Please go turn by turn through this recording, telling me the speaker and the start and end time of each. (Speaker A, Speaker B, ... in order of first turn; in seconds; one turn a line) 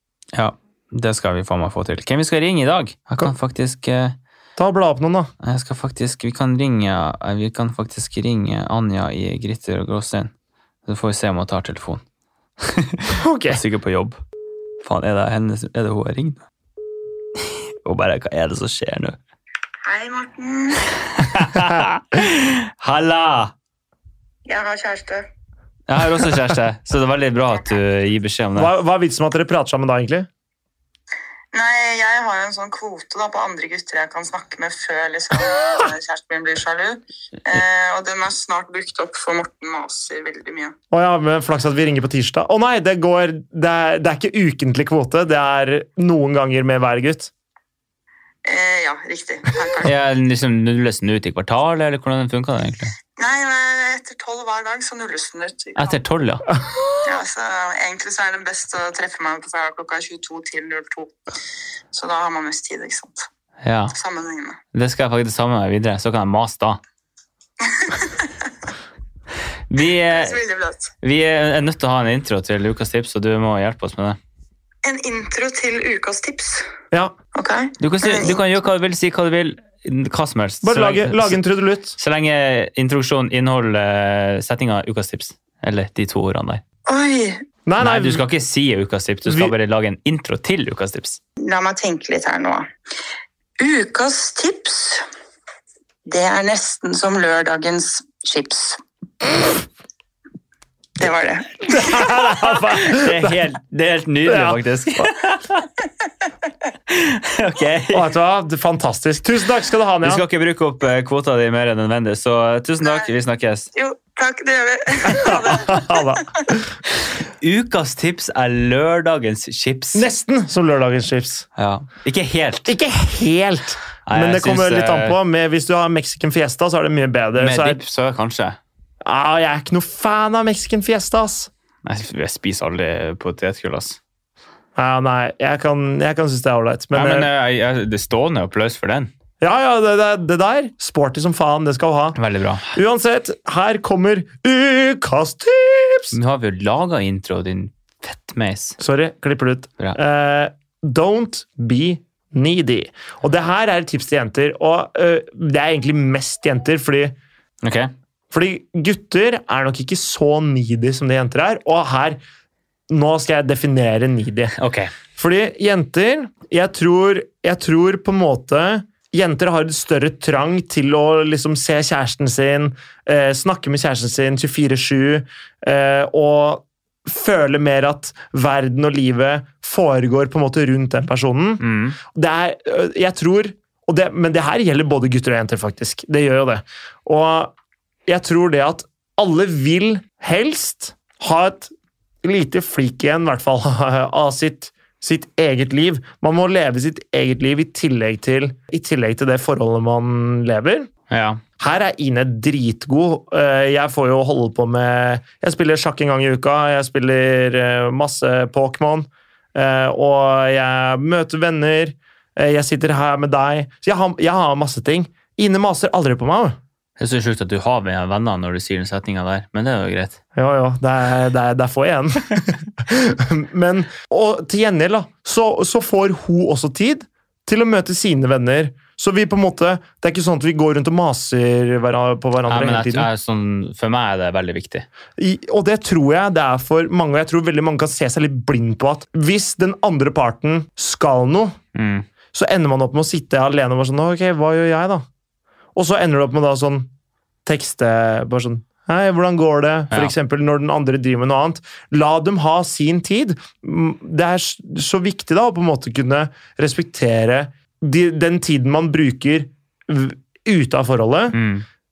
Speaker A: 0.3-4.2
Speaker B: 4.6-5.3
Speaker A: 5.4-10.3
Speaker A: 10.9-12.0
Speaker A: 12.6-14.2
Speaker B: 13.2-13.6
Speaker A: 14.8-16.4
Speaker A: 17.4-19.2
Speaker C: 19.8-20.9
Speaker A: 21.2-23.5
Speaker B: 21.5-21.8
Speaker C: 24.4-25.3
Speaker A: 25.9-28.7
Speaker B: 28.6-30.3
Speaker C: 31.5-40.8
Speaker B: 40.9-47.3
Speaker C: 48.5-49.9
Speaker A: 49.8-53.0
Speaker C: 53.2-56.0
Speaker A: 55.8-56.5
Speaker C: 57.0-61.1
Speaker C: 61.9-63.3
Speaker A: 63.6-64.0
Speaker C: 63.9-64.6
Speaker A: 64.7-66.8
Speaker C: 67.6-68.5
Speaker A: 69.7-70.4
Speaker C: 69.8-70.9
Speaker A: 71.0-74.2
Speaker C: 74.8-76.7
Speaker C: 77.3-78.4
Speaker A: 77.8-81.4
Speaker B: 80.6-82.0
Speaker A: 82.0-86.6
Speaker C: 86.9-87.5
Speaker B: 87.7-88.2
Speaker A: 87.8-91.2
Speaker B: 89.3-89.5
Speaker C: 91.4-92.6
Speaker C: 93.6-95.0
Speaker C: 96.1-98.8
Speaker C: 101.0-102.1
Speaker B: 101.7-103.3
Speaker A: 102.2-105.6
Speaker B: 104.3-104.6
Speaker A: 106.9-108.1
Speaker B: 107.9-110.2
Speaker A: 110.0-113.7
Speaker C: 112.8-113.1
Speaker C: 113.8-116.4
Speaker B: 115.1-116.3
Speaker A: 117.0-120.1
Speaker B: 119.9-121.5
Speaker A: 121.6-122.8
Speaker B: 122.7-127.8
Speaker A: 124.1-125.2
Speaker A: 127.4-128.6
Speaker B: 129.0-131.5
Speaker A: 131.8-134.0
Speaker B: 134.8-137.3
Speaker A: 136.9-139.1
Speaker B: 139.4-142.2
Speaker A: 142.1-142.8
Speaker B: 142.7-146.2
Speaker A: 146.1-148.8
Speaker B: 148.8-157.2
Speaker A: 157.6-157.9
Speaker B: 158.3-162.2
Speaker B: 162.9-164.6
Speaker A: 164.6-164.9
Speaker B: 165.2-187.5
Speaker A: 181.6-182.0
Speaker B: 188.1-200.9
Speaker A: 201.1-201.4
Speaker B: 201.6-216.6
Speaker A: 217.0-220.2
Speaker B: 220.3-233.1
Speaker A: 232.5-234.9
Speaker B: 235.2-241.6
Speaker A: 241.8-242.1
Speaker B: 242.3-245.1
Speaker B: 245.8-246.9
Speaker B: 247.4-261.4
Speaker A: 261.3-261.7